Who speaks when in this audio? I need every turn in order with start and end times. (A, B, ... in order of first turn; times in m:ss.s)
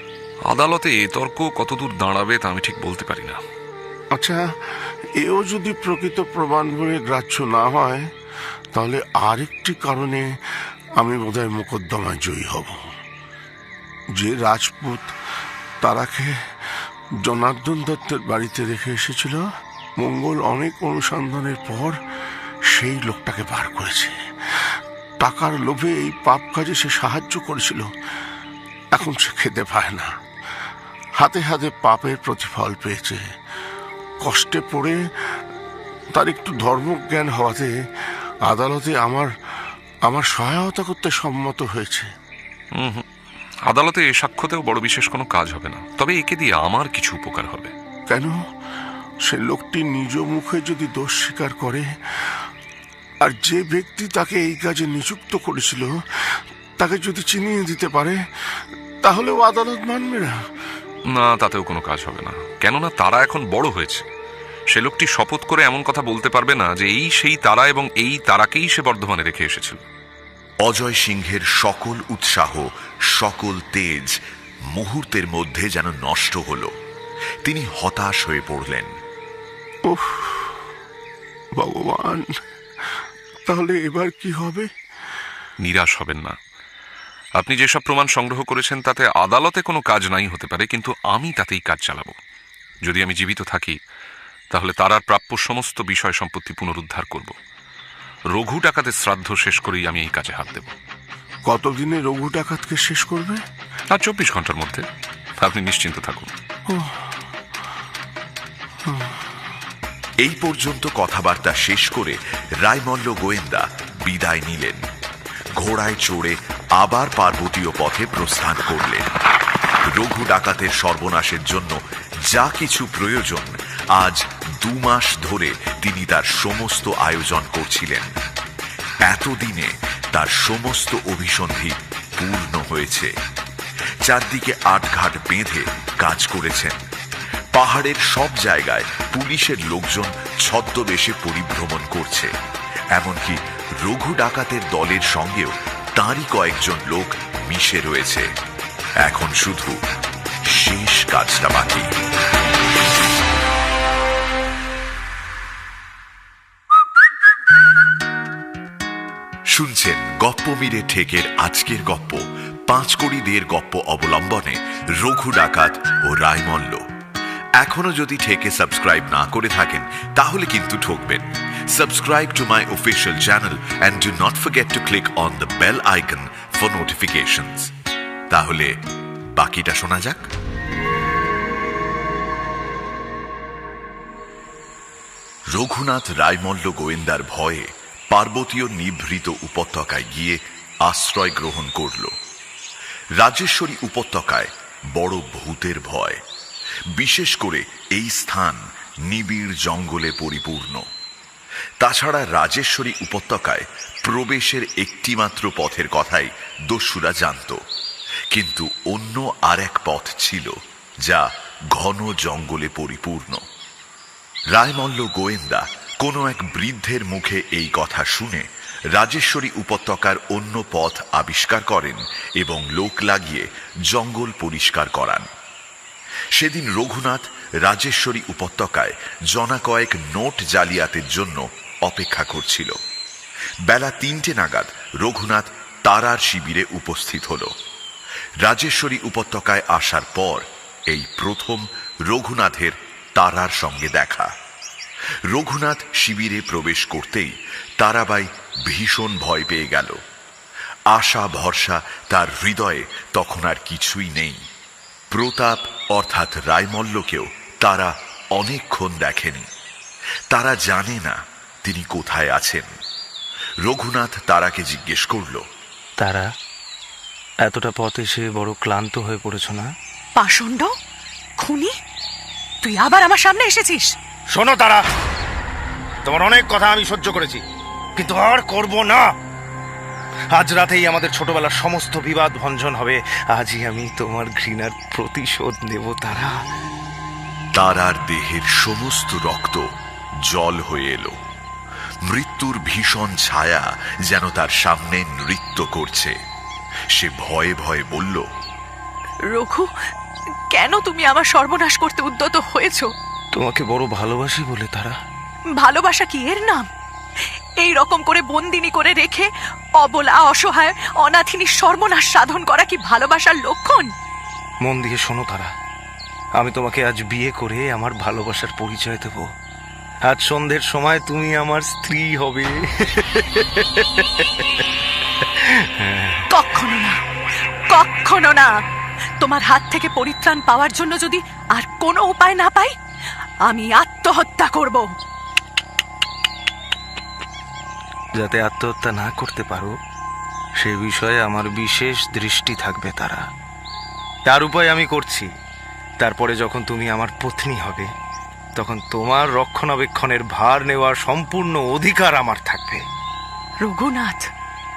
0:00.5-0:03.4 A
0:04.1-0:04.4 B
0:05.2-0:08.1 B
0:08.7-0:10.3 B
0:11.0-0:12.8 B
0:14.2-0:15.1 B
0:15.8-0:16.3 B
0:17.2-0:19.4 B
0:20.0-0:22.0 B
0:22.7-0:27.9 B
0:28.9-0:30.1 B
0:31.2-0:33.2 B
0:34.2-0:35.0 B
0:36.1-0:37.7 B
0:38.4-0:39.3 B
0:40.0-0:42.1 B
0:42.7-0:43.0 A
0:43.7-0:47.7 A
0:48.1-0:48.4 B
0:49.2-0:52.5 B
0:53.2-0:58.2 B
0:59.0-1:00.4 B
1:01.1-1:04.0 A
1:04.7-1:09.8 A
1:10.6-1:14.2 C
1:14.7-1:16.7 C
1:17.4-1:18.9 C
1:19.9-1:20.6 B
1:21.6-1:22.3 B
1:23.4-1:24.7 B
1:25.6-1:26.4 A
1:27.4-1:32.2 A
1:32.8-1:33.8 A
1:34.5-1:37.3 A
1:38.3-1:40.7 A
1:41.5-1:43.4 B
1:43.9-1:44.8 A
1:45.4-1:46.3 A
1:46.7-1:47.1 B
1:48.8-1:49.2 B
1:50.2-1:54.8 C
1:55.6-1:59.1 C
1:59.8-2:08.1 C
2:09.0-2:13.1 C
2:14.0-2:16.8 C
2:17.5-2:22.3 C
2:22.9-2:28.3 C
2:29.0-2:29.8 C
2:30.5-2:31.9 C
2:39.5-2:46.8 C
2:47.6-2:57.7 C
2:58.3-2:58.7 C
2:59.3-3:00.3 C
3:05.5-3:12.1 C
3:13.2-3:16.2 C
3:16.9-3:20.8 C
3:21.8-3:27.6 C
3:28.3-3:33.4 C
3:34.5-3:45.3 C
3:46.3-3:52.8 C
3:53.6-3:57.5 C
3:58.4-4:04.3 C
4:05.3-4:10.0 C
4:10.9-4:14.4 C
4:15.1-4:19.5 C
4:20.3-4:22.7 C
4:23.6-4:25.4 C
4:26.0-4:26.3 D
4:27.4-4:29.7 D
4:30.2-4:30.7 E
4:31.4-4:31.7 E
4:32.6-4:33.9 E
4:34.3-4:34.8 D
4:36.0-4:37.4 D
4:38.0-4:39.1 D
4:40.3-4:46.3 D
4:47.5-4:49.7 C
4:50.2-4:51.2 C
4:52.0-4:56.1 C
4:56.9-4:58.3 C
4:59.3-4:59.7 E
5:00.5-5:02.9 E
5:03.3-5:04.9 D
5:05.6-5:06.7 E
5:07.6-5:09.3 E
5:09.8-5:13.9 E
5:14.6-5:15.5 D
5:16.4-5:19.3 D
5:20.0-5:24.6 D
5:25.2-5:26.2 D
5:26.3-5:27.0 E
5:27.7-5:28.5 E
5:29.2-5:32.7 E
5:33.4-5:34.9 E
5:38.2-5:39.7 D
5:40.6-5:43.2 D
5:44.3-5:45.3 D
5:46.0-5:47.9 D
5:48.6-5:52.8 D
5:53.6-5:54.2 E